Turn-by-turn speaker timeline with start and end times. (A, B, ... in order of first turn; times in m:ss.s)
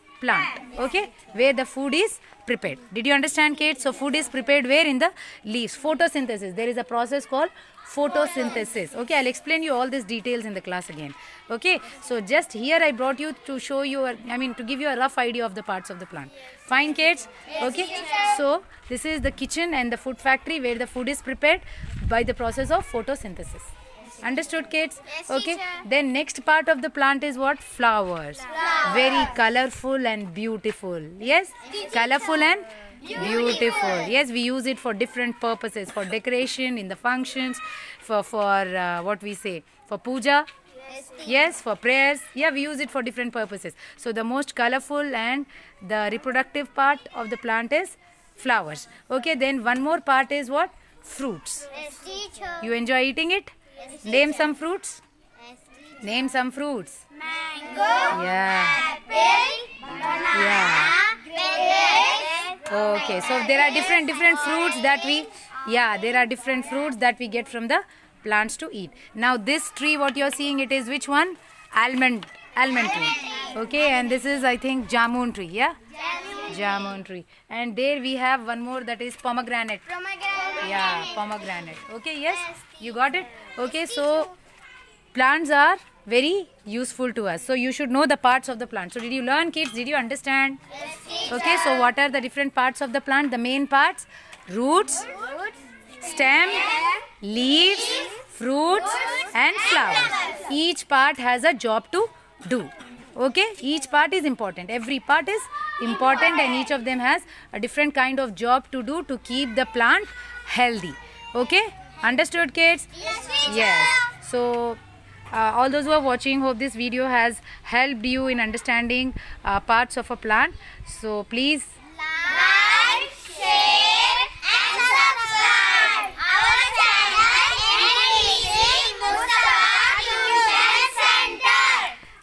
0:00.2-0:40.5 A
0:40.9-0:41.2 B
0:41.1-0:51.8 A
0:51.8-0:52.6 B
0:52.6-0:55.0 A
0:55.5-0:55.8 B
0:56.0-0:57.0 A
0:57.2-0:58.1 B
0:58.1-0:59.0 A
0:58.8-1:02.6 B
1:00.2-1:01.0 A
1:02.6-1:15.8 A
1:13.2-1:13.5 B
1:16.0-1:16.5 B
1:16.4-1:20.0 A
1:20.1-1:20.6 B
1:20.6-1:24.3 A
1:25.1-1:30.6 A
1:30.9-1:31.3 B
1:31.3-1:35.2 A
1:36.0-1:54.8 A
1:55.3-2:01.7 A
2:02.0-2:12.0 B